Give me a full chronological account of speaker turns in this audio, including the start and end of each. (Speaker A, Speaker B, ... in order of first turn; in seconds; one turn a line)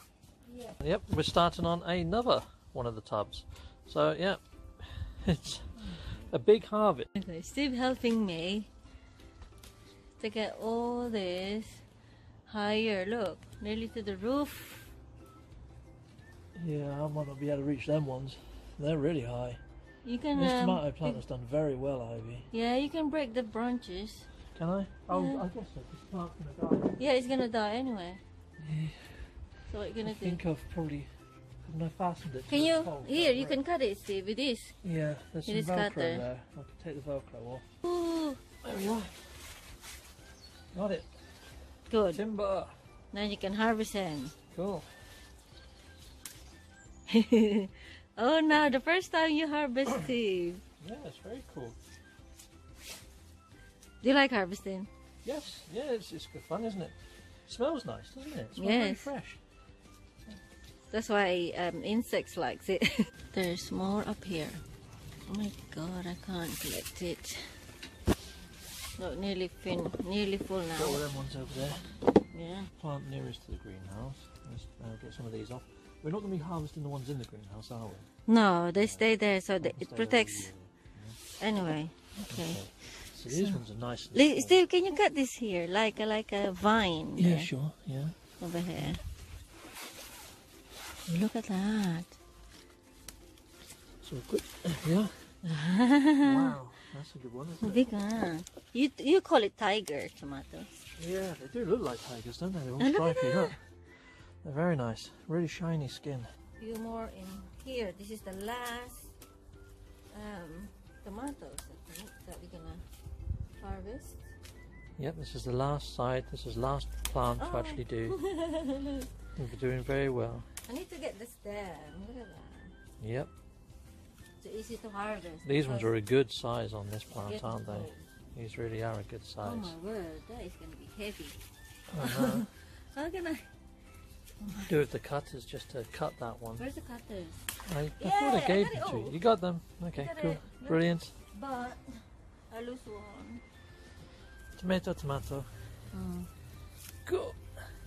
Speaker A: 0.5-0.8
Speaker B: 0.8-7.1
Speaker A: 5.8-6.2
Speaker A: 7.1-8.7
Speaker A: 10.2-11.8
Speaker A: 12.4-14.9
Speaker B: 16.5-19.6
Speaker A: 20.0-21.2
Speaker B: 20.3-22.5
Speaker A: 22.5-24.3
Speaker B: 24.5-27.0
Speaker A: 25.1-25.4
Speaker A: 27.0-28.2
Speaker B: 28.6-29.2
Speaker A: 29.7-30.4
Speaker B: 30.0-31.1
Speaker B: 31.6-33.6
Speaker A: 32.5-34.8
Speaker B: 34.8-37.6
Speaker A: 35.5-36.2
Speaker A: 37.8-38.4
Speaker B: 38.6-39.3
Speaker B: 40.7-41.1
Speaker A: 41.9-42.2
Speaker B: 42.1-42.7
Speaker A: 43.1-44.4
Speaker B: 44.5-44.9
Speaker A: 47.1-50.6
Speaker B: 50.8-51.8
Speaker A: 54.0-54.9
Speaker B: 55.2-57.0
Speaker B: 57.5-59.4
Speaker A: 58.5-59.1
Speaker A: 60.9-64.6
Speaker A: 65.3-67.6
Speaker A: 69.0-71.0
Speaker B: 70.8-71.8
Speaker A: 72.3-72.7
Speaker B: 72.8-78.1
Speaker A: 78.3-80.5
Speaker B: 78.8-79.0
Speaker B: 79.6-81.2
Speaker A: 81.4-82.7
Speaker B: 82.3-84.6
Speaker A: 83.3-83.6
Speaker A: 84.1-87.5
Speaker B: 87.2-88.2
Speaker A: 88.4-89.0
Speaker A: 91.0-92.2
Speaker B: 94.0-95.6
Speaker A: 95.4-96.5
Speaker B: 96.2-97.9
Speaker A: 97.6-100.7
Speaker B: 101.0-103.6
Speaker A: 102.8-103.5
Speaker B: 104.4-106.3
Speaker A: 106.6-109.1
Speaker A: 110.1-112.8
Speaker A: 113.6-114.3
Speaker B: 115.0-118.2
Speaker A: 117.4-119.1
Speaker B: 119.3-120.5
Speaker A: 120.7-122.7
Speaker B: 123.0-123.3
Speaker A: 124.4-125.9
Speaker B: 125.4-129.7
Speaker A: 127.2-128.0
Speaker A: 129.4-131.4
Speaker B: 131.9-132.5
Speaker A: 132.0-133.5
Speaker A: 134.4-134.7
Speaker B: 134.7-136.6
Speaker A: 136.6-139.2
Speaker B: 137.6-141.1
Speaker A: 139.9-143.4
Speaker B: 144.6-145.5
Speaker A: 145.9-146.3
Speaker B: 147.1-147.4